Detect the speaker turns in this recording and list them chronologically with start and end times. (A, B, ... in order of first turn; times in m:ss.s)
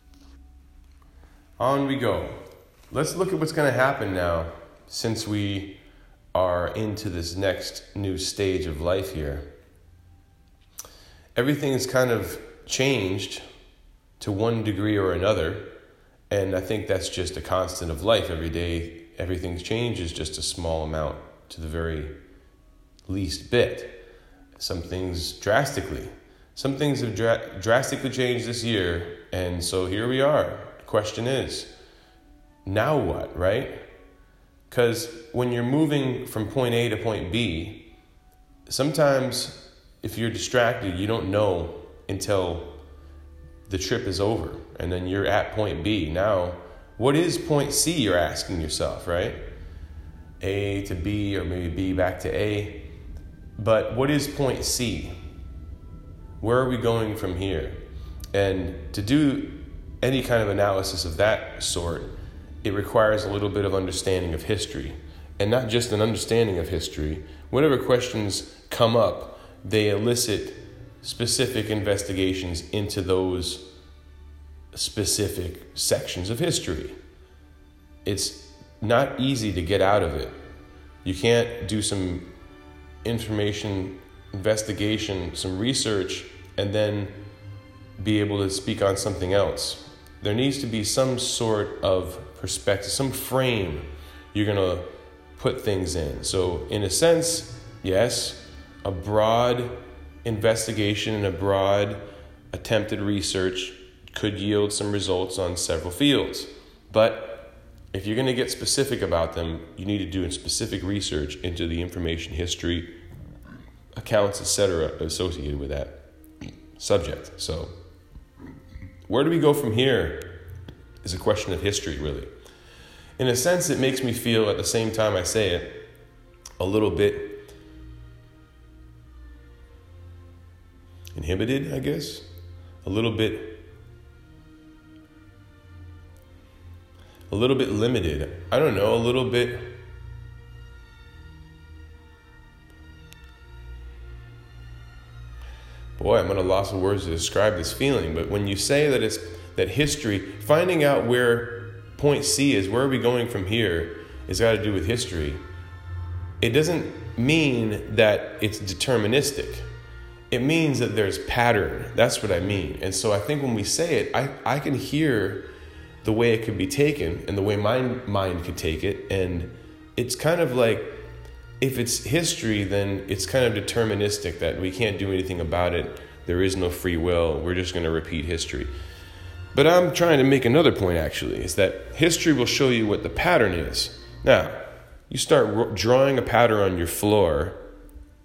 0:01.6-0:05.8 A
0:06.3-0:09.5 A
0:11.4-0:13.4 A
0:14.2-0:15.7 A
0:16.3-0:22.2 A
0:23.1-0:24.0 A
0:24.6-0:31.7 A
0:32.7-0:33.9 A
0:34.7-0:37.9 A
0:38.7-0:42.8 A
0:43.7-0:49.4 A
0:50.4-0:52.9 A
0:53.6-0:55.2 A
0:56.4-0:57.8 A
0:58.3-1:13.7 A
1:14.7-1:17.0 A
1:18.0-1:20.4 A
1:21.0-1:22.3 A
1:23.0-1:27.2 A
1:28.0-1:53.0 A
1:54.0-1:56.0 A
1:56.8-1:57.7 A
1:59.1-2:00.4 A
2:01.0-2:02.3 A
2:03.2-2:05.8 A
2:06.6-2:07.5 A
2:11.2-2:12.3 A
2:12.8-2:13.6 A
2:17.3-2:19.8 A
2:26.0-2:35.4 A
2:36.4-2:39.7 A
2:40.3-2:45.5 A
2:46.0-2:51.0 A
2:51.6-2:58.7 A
2:59.5-3:07.6 A